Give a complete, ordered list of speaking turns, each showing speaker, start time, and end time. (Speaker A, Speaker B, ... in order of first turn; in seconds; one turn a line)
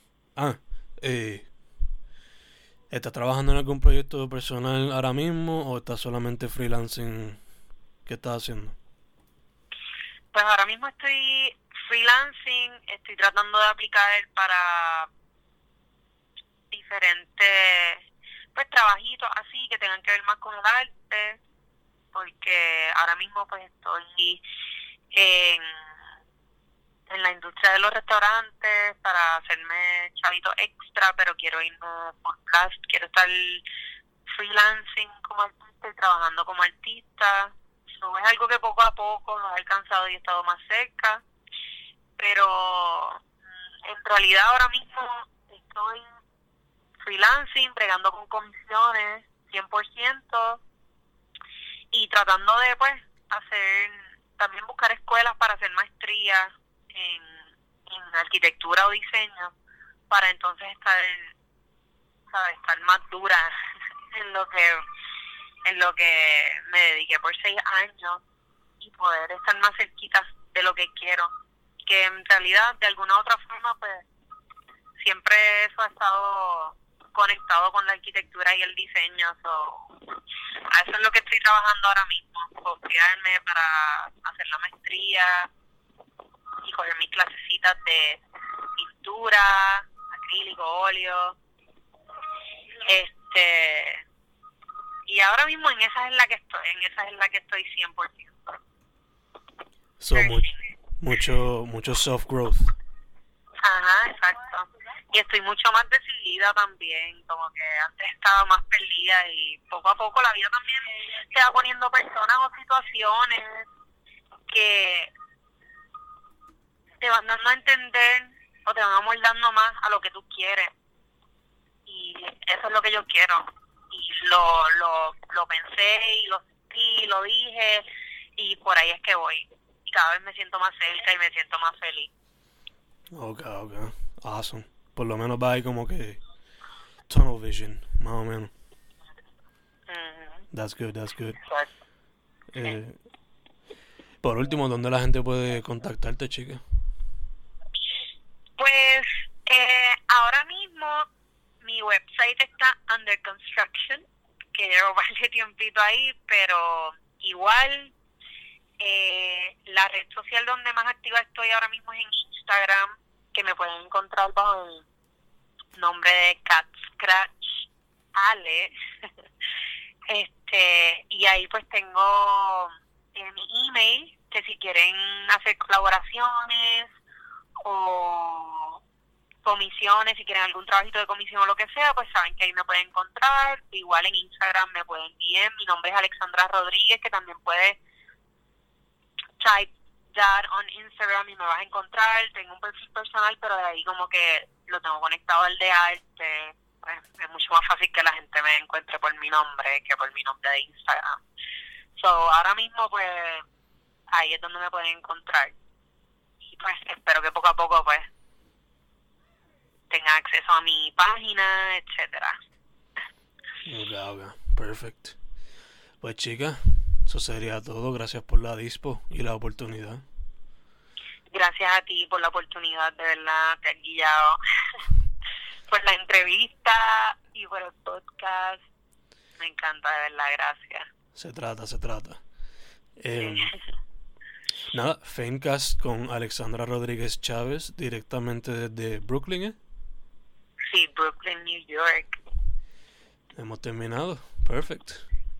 Speaker A: 0.3-1.5
Speaker A: 2.9-7.4
Speaker A: 8.1-8.8
Speaker B: 10.3-15.1
Speaker B: 16.7-21.4
Speaker B: 22.1-24.4
Speaker B: 25.1-25.7
Speaker B: 27.1-33.6
Speaker B: 34.3-41.2
Speaker B: 42.2-43.2
Speaker B: 43.9-46.0
Speaker B: 47.0-50.6
Speaker B: 51.9-59.5
Speaker B: 60.1-61.3
Speaker B: 62.3-63.5
Speaker B: 64.1-64.8
Speaker B: 65.6-68.2
Speaker B: 68.8-71.3
Speaker B: 71.9-74.0
Speaker B: 75.0-79.9
Speaker B: 80.7-85.5
Speaker B: 86.6-88.2
Speaker B: 88.8-91.4
Speaker B: 92.9-94.0
Speaker B: 95.1-98.6
Speaker A: 100.0-102.7
Speaker B: 100.1-100.6
Speaker B: 103.6-113.7
Speaker B: 114.5-115.1
Speaker B: 117.0-120.7
Speaker B: 121.9-132.1
Speaker A: 133.1-136.2
Speaker A: 137.1-138.5
Speaker B: 139.9-140.5
Speaker A: 140.5-141.4
Speaker A: 142.5-143.0
Speaker A: 144.2-146.6
Speaker B: 148.6-151.1
Speaker B: 151.6-157.9
Speaker B: 158.8-164.8
Speaker B: 165.8-168.7
Speaker B: 170.1-176.9
Speaker B: 177.6-178.8
Speaker B: 179.4-187.8
Speaker B: 189.4-201.2
Speaker B: 202.0-203.4
Speaker B: 204.1-205.5
Speaker B: 206.5-208.1
Speaker B: 209.9-212.4
Speaker A: 213.7-215.2
Speaker A: 216.0-220.0
Speaker B: 221.3-224.4
Speaker B: 225.7-228.7
Speaker B: 229.4-230.9
Speaker A: 231.1-232.2
Speaker A: 233.0-233.5
Speaker A: 234.7-239.6
Speaker B: 240.7-242.2
Speaker A: 243.3-245.1